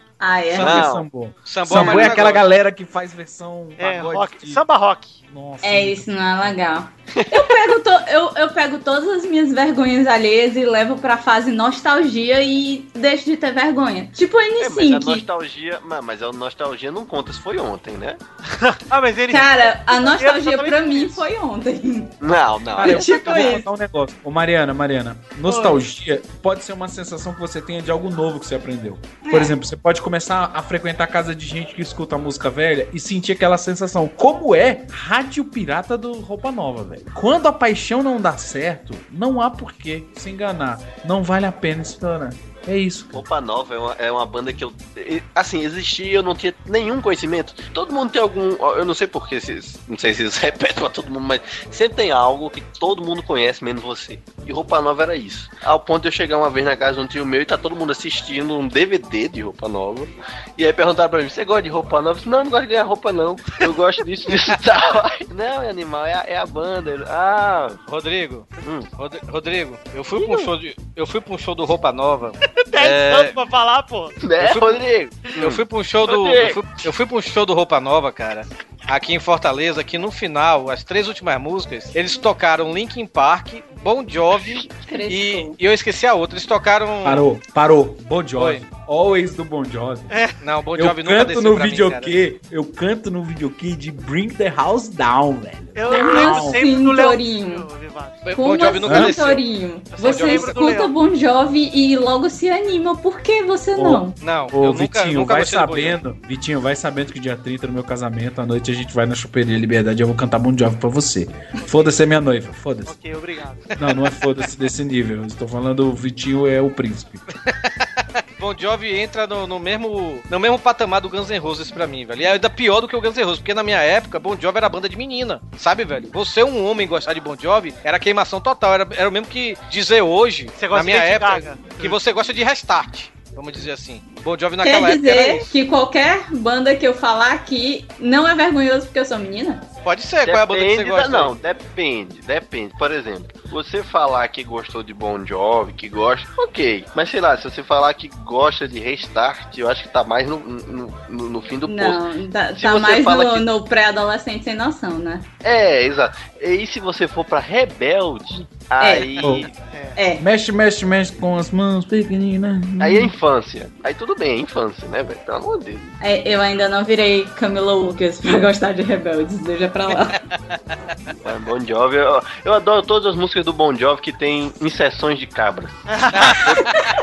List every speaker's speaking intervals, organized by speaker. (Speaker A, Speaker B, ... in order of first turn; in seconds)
Speaker A: 0.2-0.8, 5.6-15.2, 19.3-22.1, 22.8-23.6, 29.2-29.5, 84.8-85.6, 95.8-97.7, 98.3-104.2, 134.6-139.6, 151.7-155.2, 158.8-159.3, 160.0-160.2, 166.0-170.2
Speaker B: 0.6-0.8, 1.4-2.5, 67.9-73.4, 74.4-74.8, 75.4-87.2, 90.4-92.2, 98.2-99.4, 100.0-100.6, 104.2-106.0, 118.4-135.5, 139.8-141.3, 176.1-176.4
Speaker C: 0.6-4.6, 5.3-6.5, 22.8-43.2, 87.0-90.1, 90.8-96.6, 98.8-99.1, 103.8-112.9, 113.8-117.2, 159.2-159.5, 160.2-163.1
Speaker D: 0.6-1.1, 7.2-7.4, 14.6-18.2, 22.2-23.4, 43.1-67.8, 68.6-68.9, 74.2-76.8, 84.4-84.7, 140.2-152.0, 152.6-153.5, 155.4-159.5, 162.8-165.8, 171.2-176.6
Speaker E: 3.8-5.2, 18.5-21.2, 25.5-25.8, 72.5-74.2, 90.1-90.4, 95.7-98.2, 99.9-100.9, 111.6-112.0, 112.8-113.7, 130.6-132.0, 159.7-160.0, 175.9-176.6